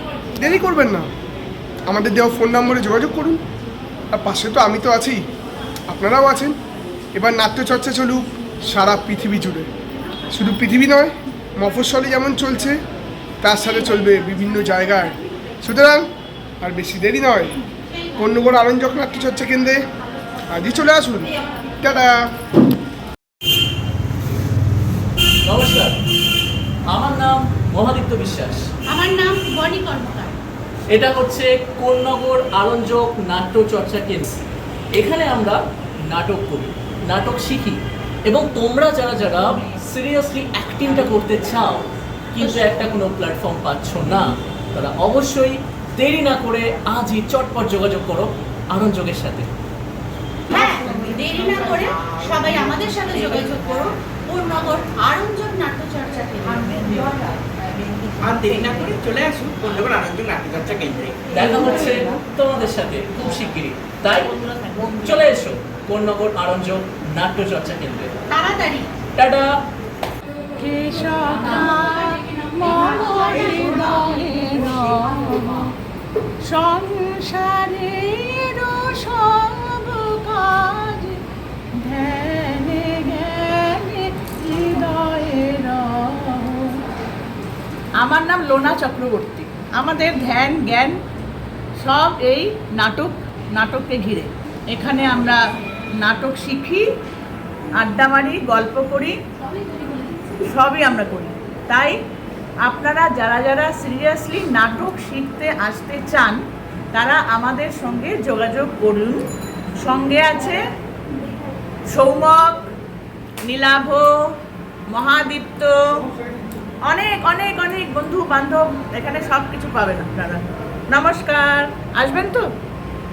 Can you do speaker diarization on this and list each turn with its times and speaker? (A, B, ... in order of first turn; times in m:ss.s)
0:00.4-0:01.1 A
0:01.9-0:03.4 A
0:04.1-0:05.2 A
0:05.9-0:06.6 A
0:07.1-0:09.7 A
0:10.3-0:12.8 A
0:13.4-0:16.1 A
0:16.6-0:17.6 A
0:18.2-0:19.8 A
0:20.5-0:22.2 A
0:25.4-0:26.0 B
0:26.9-0:28.6 B
0:28.9-0:30.3 C
0:30.9-0:34.4 B
0:35.0-0:35.6 B
0:36.1-0:49.5 B
0:50.5-0:57.1 C
0:58.3-1:01.2 D
1:01.3-1:08.1 B
1:08.3-1:08.9 C
1:09.2-1:09.5 B
1:10.6-1:15.7 E
1:11.4-1:14.2 C
1:16.4-1:21.2 E
1:21.8-1:26.8 E
1:28.0-1:31.0 E
1:31.8-1:35.4 E
1:36.0-1:36.8 E
1:37.8-1:39.2 E
1:40.5-1:42.0 E
1:42.6-1:46.4 E
1:46.9-1:49.2 E
1:49.8-1:50.6 E
1:51.9-1:52.7 E
1:53.5-1:54.1 E
1:54.9-1:56.0 E
1:56.9-2:02.4 E